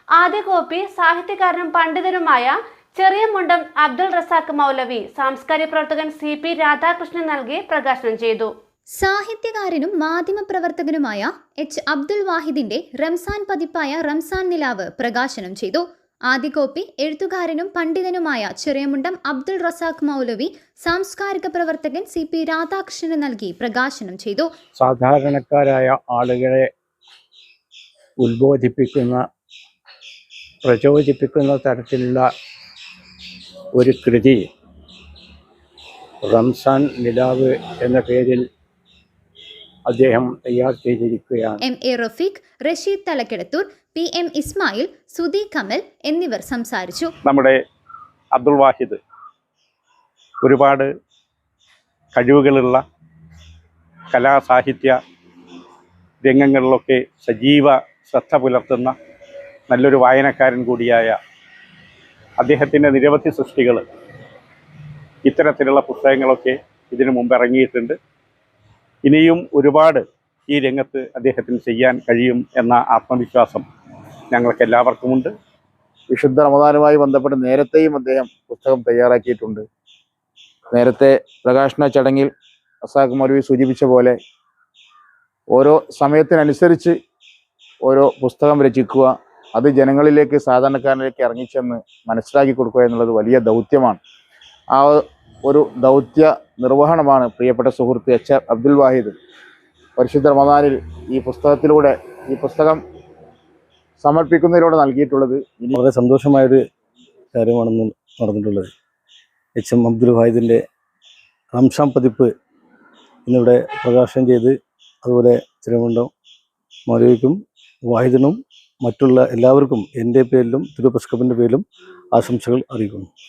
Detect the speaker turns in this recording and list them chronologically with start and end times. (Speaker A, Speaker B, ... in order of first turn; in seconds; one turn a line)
Speaker A: 0.1-8.5
Speaker B: 8.9-24.5
Speaker C: 24.8-26.7
Speaker C: 28.2-29.3
Speaker C: 30.6-32.3
Speaker C: 33.7-34.5
Speaker C: 36.2-38.5
Speaker C: 39.9-41.6
Speaker B: 41.6-47.1
Speaker D: 47.2-47.6
Speaker D: 48.3-49.0
Speaker D: 50.4-50.9
Speaker D: 52.1-52.8
Speaker D: 54.1-55.0
Speaker D: 56.2-58.9
Speaker D: 59.7-61.2
Speaker D: 62.4-63.8
Speaker D: 65.2-68.0
Speaker D: 69.0-73.6
Speaker D: 74.3-75.3
Speaker E: 76.1-79.6
Speaker E: 80.7-82.3
Speaker E: 82.8-84.2
Speaker E: 85.5-87.0
Speaker E: 87.8-94.0
Speaker E: 94.7-99.1
Speaker E: 100.0-102.8
Speaker E: 104.0-105.7
Speaker F: 105.7-106.6
Speaker F: 107.3-108.7
Speaker F: 109.6-110.6
Speaker F: 111.5-112.3
Speaker F: 113.2-116.1
Speaker F: 116.9-123.1